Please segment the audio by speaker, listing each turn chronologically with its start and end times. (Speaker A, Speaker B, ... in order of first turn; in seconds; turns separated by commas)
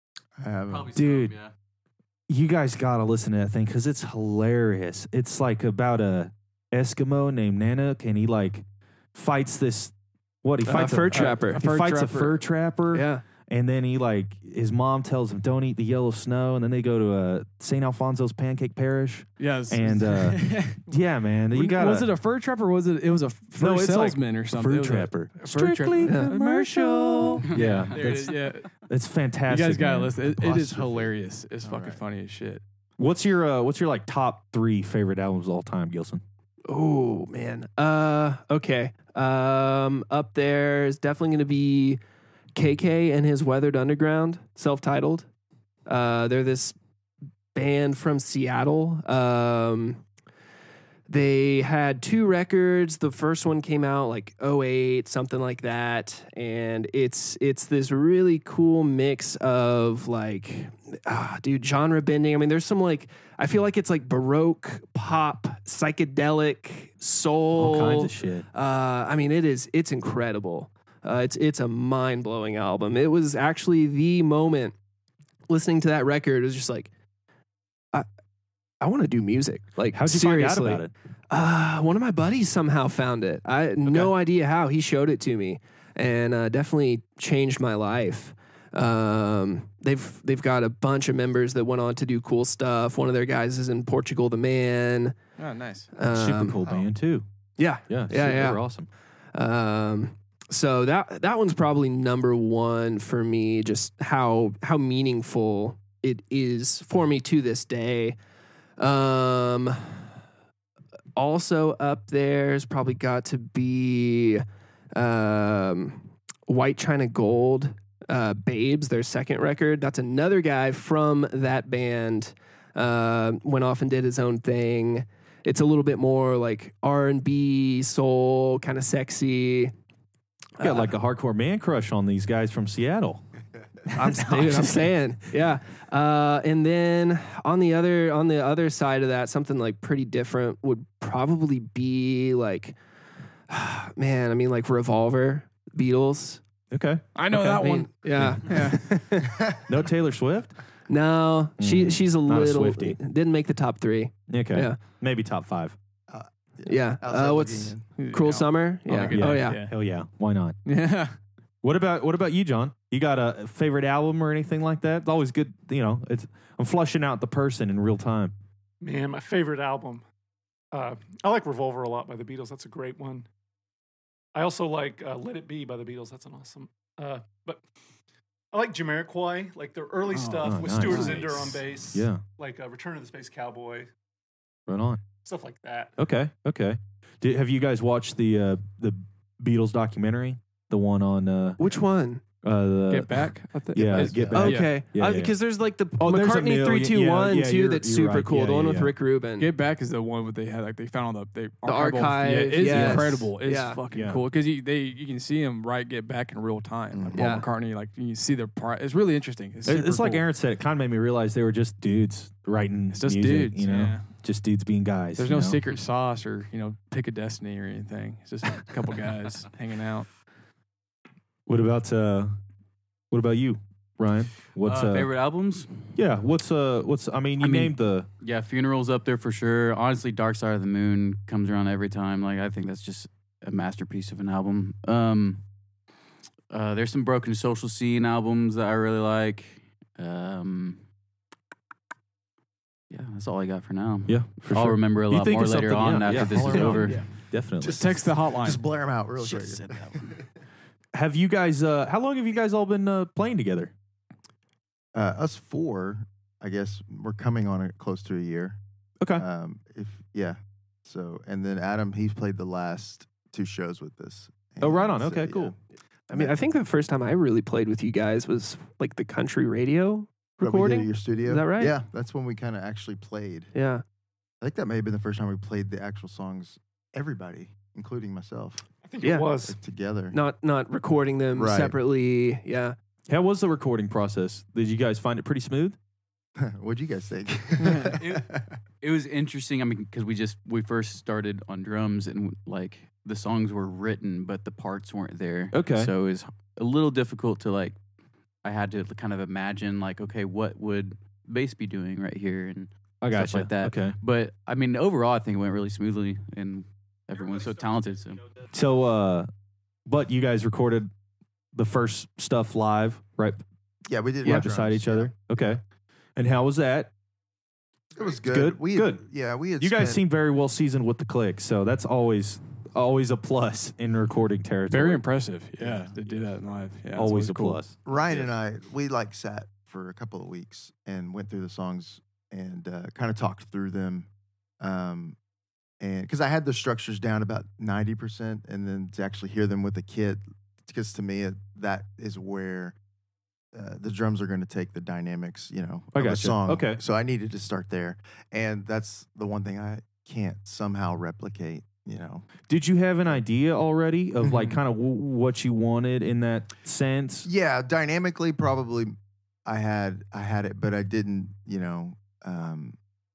Speaker A: 0.4-0.9, Speaker B: 0.7-1.5, Speaker C: 0.9-1.3, Speaker C: 2.3-22.1, Speaker D: 10.6-12.2, Speaker E: 11.1-12.3, Speaker D: 12.9-13.2, Speaker E: 19.4-20.8, Speaker E: 21.5-28.7, Speaker C: 23.6-30.8, Speaker D: 26.0-26.3, Speaker E: 29.5-32.6, Speaker A: 30.8-31.1, Speaker A: 31.6-32.0, Speaker C: 33.0-36.2, Speaker D: 36.7-42.0, Speaker D: 42.5-45.3, Speaker D: 45.9-46.8, Speaker D: 47.5-50.0, Speaker D: 51.1-74.8, Speaker C: 67.5-68.5, Speaker D: 75.5-76.9, Speaker D: 78.8-95.2, Speaker C: 79.9-80.9, Speaker C: 83.8-84.1, Speaker E: 95.4-95.9, Speaker D: 95.9-96.6, Speaker C: 96.1-97.3, Speaker D: 97.6-98.6, Speaker C: 97.8-98.9, Speaker D: 99.3-108.2, Speaker D: 108.8-110.0, Speaker D: 111.2-129.7, Speaker D: 130.6-130.9, Speaker C: 130.6-133.2, Speaker C: 133.9-134.9, Speaker D: 134.0-142.8, Speaker D: 143.5-146.4, Speaker C: 146.7-150.5, Speaker E: 147.1-148.9, Speaker D: 147.5-149.2, Speaker A: 149.2-149.6, Speaker D: 150.9-154.8, Speaker C: 151.6-153.0, Speaker C: 154.3-155.8, Speaker A: 156.1-158.0, Speaker D: 156.7-159.7, Speaker E: 158.0-159.7, Speaker C: 159.1-160.6, Speaker E: 160.7-161.2, Speaker C: 161.6-168.3, Speaker F: 168.8-170.0, Speaker F: 170.7-173.3, Speaker F: 174.3-177.6, Speaker F: 178.5-183.9, Speaker E: 180.1-181.6, Speaker C: 180.4-182.2, Speaker C: 184.7-185.0, Speaker F: 185.2-185.9, Speaker C: 186.0-191.6, Speaker D: 191.6-192.2, Speaker C: 192.4-195.4, Speaker E: 192.9-194.8, Speaker A: 194.0-194.4, Speaker D: 194.3-199.5, Speaker C: 196.0-198.9, Speaker E: 199.4-210.2, Speaker D: 201.6-203.8, Speaker C: 202.6-203.1, Speaker C: 203.9-204.2, Speaker A: 206.9-207.3, Speaker D: 207.2-207.5, Speaker C: 209.6-215.6, Speaker E: 212.9-214.1, Speaker E: 215.2-220.1, Speaker C: 221.5-222.4, Speaker C: 223.1-225.1, Speaker B: 224.5-225.9, Speaker C: 225.9-228.1, Speaker B: 227.4-235.4, Speaker B: 236.5-240.8, Speaker B: 242.9-247.1, Speaker C: 244.1-248.0, Speaker D: 246.7-247.0, Speaker A: 247.6-250.3, Speaker E: 247.6-248.6, Speaker B: 249.2-250.2, Speaker C: 250.9-253.7, Speaker A: 254.9-258.6, Speaker A: 259.1-265.6, Speaker C: 264.6-265.5, Speaker D: 266.1-271.8, Speaker A: 270.4-273.5, Speaker D: 273.5-273.8, Speaker A: 274.4-278.7, Speaker F: 278.8-279.6, Speaker D: 279.0-279.3, Speaker A: 279.4-280.2, Speaker D: 280.1-282.8, Speaker A: 281.3-281.7, Speaker C: 283.1-285.8, Speaker A: 286.4-288.5, Speaker B: 287.8-297.8, Speaker C: 295.5-295.9, Speaker B: 298.4-308.2, Speaker C: 303.0-303.9, Speaker C: 308.5-309.3, Speaker C: 309.9-310.9, Speaker C: 311.5-313.4, Speaker A: 313.9-315.1, Speaker C: 314.2-315.6, Speaker C: 316.1-316.9, Speaker A: 317.9-320.0, Speaker C: 318.2-319.0, Speaker C: 319.6-325.0, Speaker E: 324.7-327.6, Speaker C: 326.9-327.8, Speaker A: 327.8-334.1, Speaker B: 327.9-328.3, Speaker A: 334.6-335.2, Speaker A: 335.8-342.8, Speaker A: 343.5-352.3, Speaker C: 345.9-346.8, Speaker C: 352.5-357.3, Speaker A: 354.2-354.6, Speaker A: 357.2-362.8